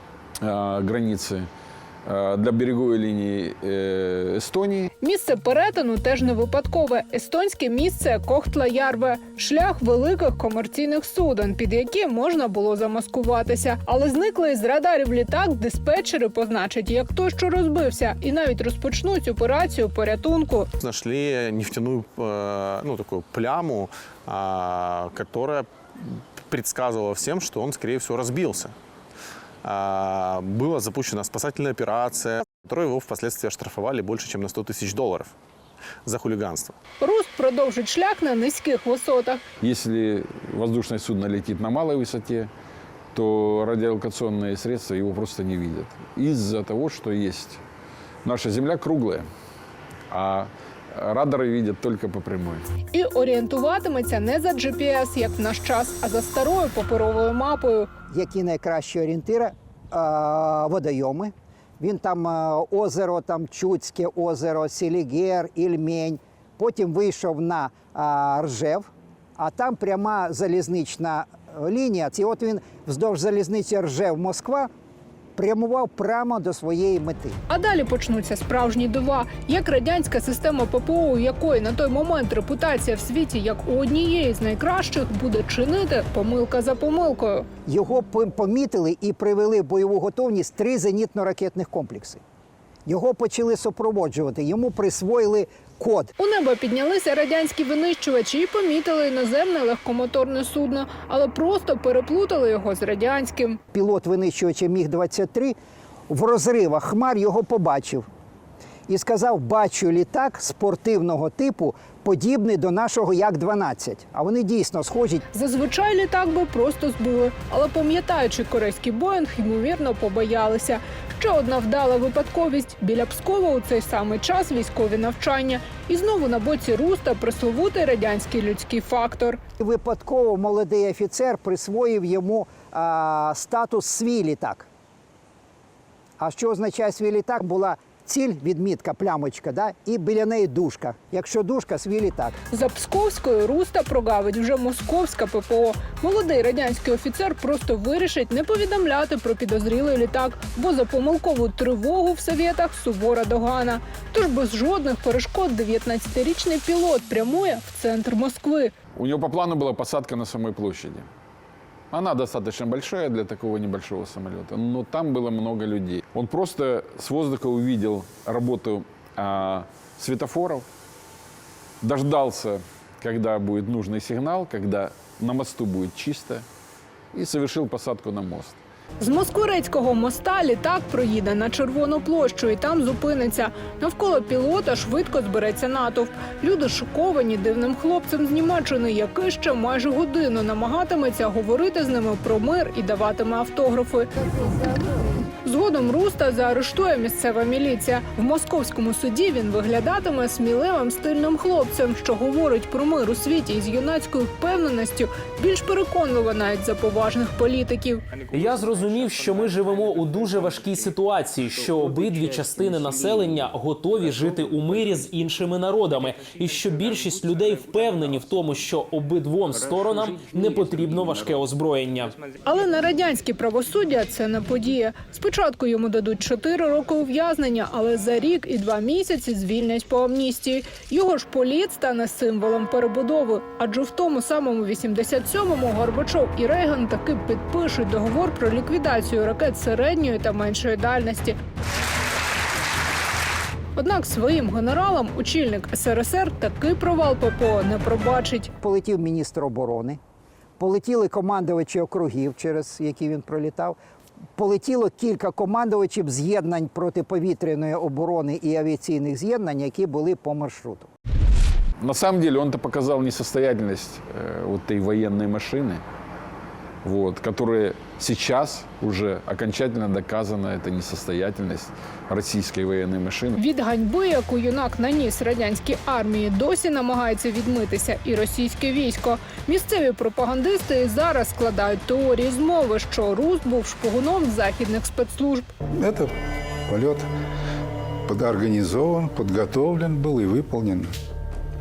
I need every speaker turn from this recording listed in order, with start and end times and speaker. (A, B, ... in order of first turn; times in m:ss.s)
0:00.4-0:01.5 A
0:02.0-0:04.9 A
0:05.0-0:20.7 B
0:20.8-0:28.7 C
0:29.6-0:35.3 C
0:36.0-0:36.8 C
0:37.0-0:39.4 B
0:39.6-0:42.5 A
0:43.1-0:47.6 A
0:48.2-0:49.2 A
0:50.1-0:52.6 A
0:52.9-0:57.9 B
0:58.1-1:14.7 D
1:15.4-1:17.4 D
1:17.5-1:27.5 B
1:27.7-1:32.2 D
1:32.9-1:36.1 D
1:36.2-1:43.6 B
1:43.7-1:45.5 D
1:46.1-1:48.0 D
1:48.9-1:55.2 D
1:55.3-2:09.4 B
2:09.6-2:14.7 D
2:16.2-2:22.4 D
2:22.5-2:38.7 B
2:39.0-2:41.1 A
2:41.9-2:50.7 A
2:51.8-2:56.4 A
2:57.1-2:58.6 A
2:59.0-3:14.1 B
3:15.4-3:28.0 B
3:28.3-3:42.3 E
3:42.4-4:01.4 B
4:03.7-4:08.5 B
4:08.6-4:10.0 D
4:10.6-4:13.8 D
4:14.4-4:20.9 D
4:21.8-4:25.8 A
4:26.8-4:33.4 A
4:33.4-4:45.5 B
4:45.8-4:46.1 F
4:46.7-4:47.1 F
4:48.0-4:50.9 F